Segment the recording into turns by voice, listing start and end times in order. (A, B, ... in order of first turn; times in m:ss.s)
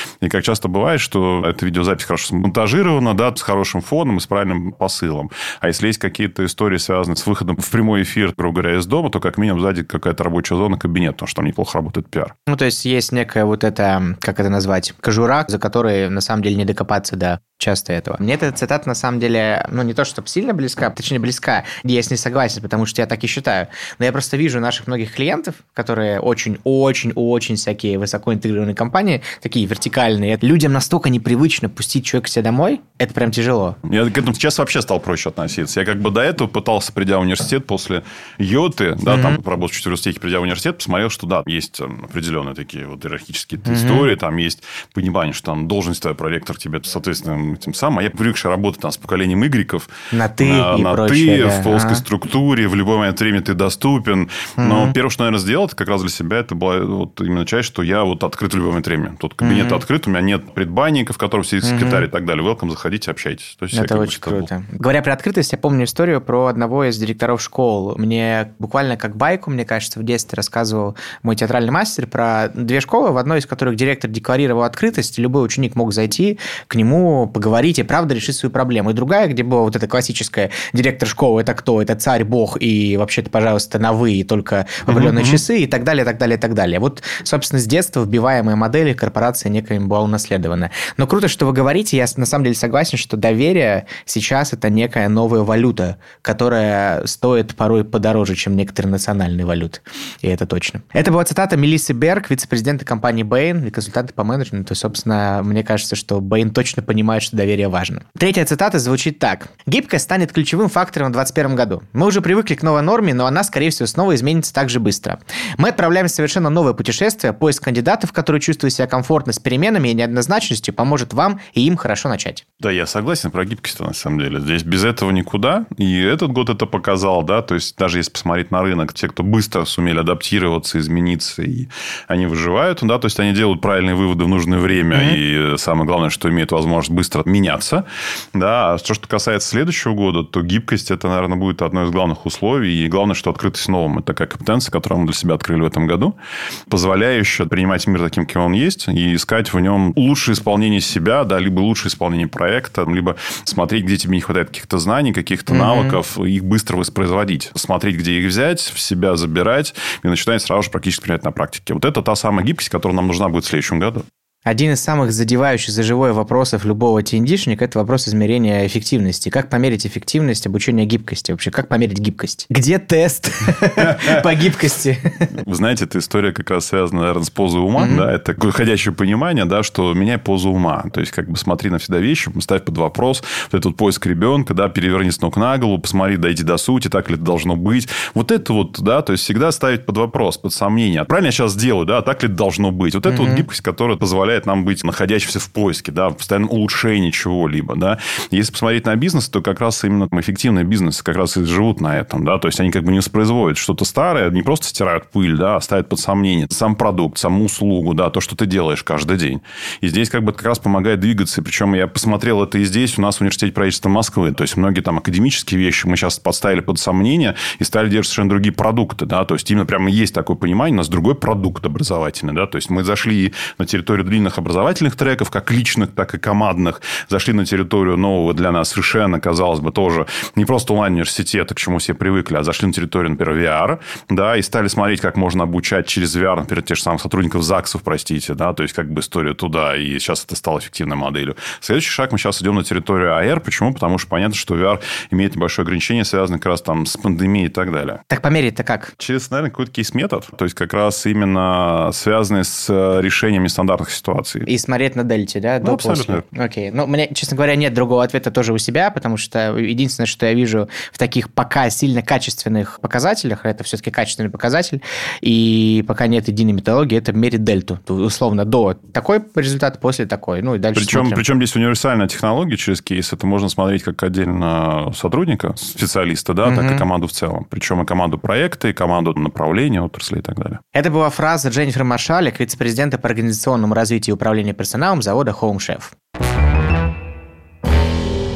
0:00.2-0:12.3 A
0:12.5-0:33.8 B
0:33.8-1:04.5 A
0:39.1-0:39.4 B
0:43.6-0:44.1 B
0:50.1-0:52.0 B
0:54.6-0:54.9 B
0:59.4-0:59.8 B
1:01.6-1:02.0 B
1:03.7-2:02.4 B
1:24.9-1:25.4 A
2:02.6-2:26.1 A
2:26.7-2:44.0 A
2:35.5-2:36.0 B
2:44.4-2:55.3 B
2:53.8-2:54.2 A
2:55.4-4:08.0 A
2:57.8-2:58.1 B
3:13.1-3:13.4 B
4:08.1-4:08.9 B
4:09.0-4:14.5 A
4:14.4-4:31.2 B
4:15.6-4:16.3 A
4:30.7-4:40.6 A
4:36.4-4:36.8 B
4:40.7-4:45.9 B